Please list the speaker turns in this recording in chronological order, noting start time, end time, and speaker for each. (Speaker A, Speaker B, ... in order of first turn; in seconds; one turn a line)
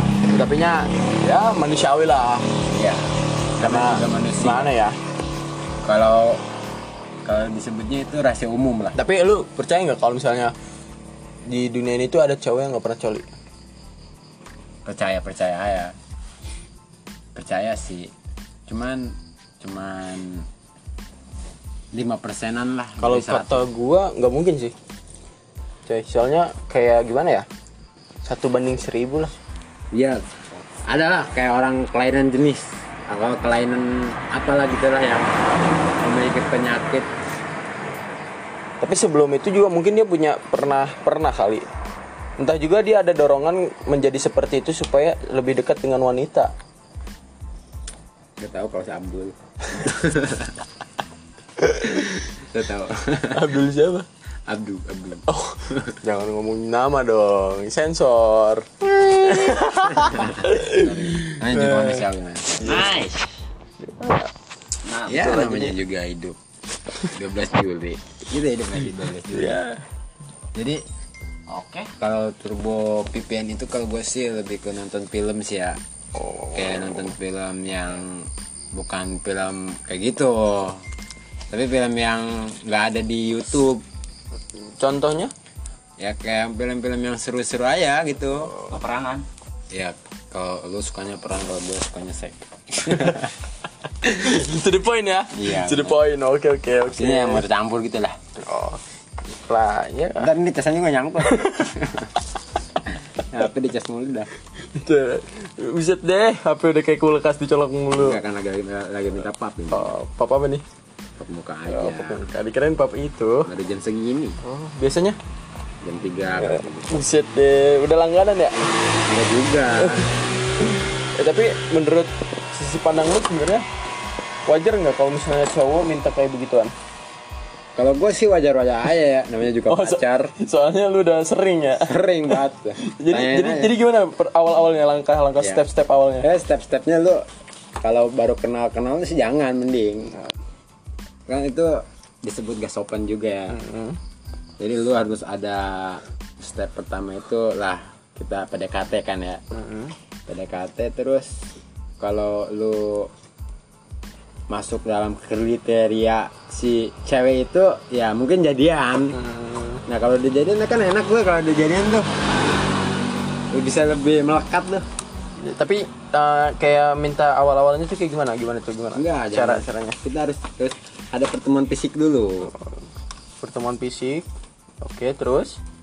Speaker A: 0.3-2.5
Speaker B: 2.7-4.7
Speaker A: 3.6-5.0
Speaker B: 5.8-6.4
Speaker B: 7.2-9.0
Speaker A: 8.9-10.5
Speaker A: 11.5-13.3
Speaker B: 14.8-15.9
Speaker B: 17.4-18.1
Speaker B: 18.7-20.5
Speaker B: 21.9-23.7
Speaker A: 23.0-24.7
Speaker A: 25.9-27.5
Speaker A: 28.2-29.3
Speaker B: 29.9-30.2
Speaker B: 30.9-35.4
Speaker B: 35.9-37.1
Speaker A: 38.8-41.7
Speaker A: 42.4-46.5
Speaker B: 48.4-50.6
Speaker A: 51.6-52.1
Speaker B: 52.2-53.5
Speaker A: 53.3-54.1
Speaker B: 54.5-55.9
Speaker A: 55.3-62.1
Speaker B: 59.5-62.9
Speaker A: 62.6-62.9
Speaker C: 62.6-63.3
Speaker A: 63.8-64.3
Speaker C: 64.8-65.7
Speaker B: 65.1-66.4
Speaker B: 67.0-69.6
Speaker A: 69.3-69.8
Speaker B: 70.5-70.8
Speaker C: 71.5-71.8
Speaker B: 72.0-75.8
Speaker A: 76.2-77.1
Speaker B: 76.5-80.8
Speaker B: 81.5-83.8
Speaker A: 84.5-85.3
Speaker B: 86.0-88.5
Speaker C: 88.7-89.3
Speaker B: 89.7-93.3
Speaker A: 92.9-93.2
Speaker A: 94.0-97.5
Speaker B: 95.3-96.0
Speaker B: 96.9-98.2
Speaker A: 98.4-100.3
Speaker B: 100.2-102.1
Speaker B: 102.9-104.3
Speaker A: 104.6-108.2
Speaker B: 108.0-110.0
Speaker A: 109.7-110.6
Speaker B: 111.2-112.2
Speaker A: 111.7-113.5
Speaker B: 113.5-114.4
Speaker A: 114.4-115.2
Speaker B: 115.8-117.1
Speaker A: 116.4-118.7
Speaker B: 119.1-120.1
Speaker A: 119.8-120.1
Speaker A: 120.6-123.7
Speaker A: 124.5-126.7
Speaker B: 127.8-130.3
Speaker A: 129.7-131.9
Speaker B: 131.8-133.8
Speaker A: 132.8-136.3
Speaker B: 136.2-137.2
Speaker B: 137.8-140.2
Speaker B: 141.3-143.6
Speaker A: 143.5-144.0
Speaker B: 144.6-149.4
Speaker A: 149.5-149.9
Speaker B: 150.3-151.5
Speaker B: 152.0-153.1
Speaker B: 154.5-159.2
Speaker A: 159.1-159.8
Speaker B: 159.9-162.1
Speaker B: 163.5-164.9
Speaker A: 165.4-170.0
Speaker B: 168.9-172.5
Speaker A: 173.4-174.3
Speaker A: 174.8-175.6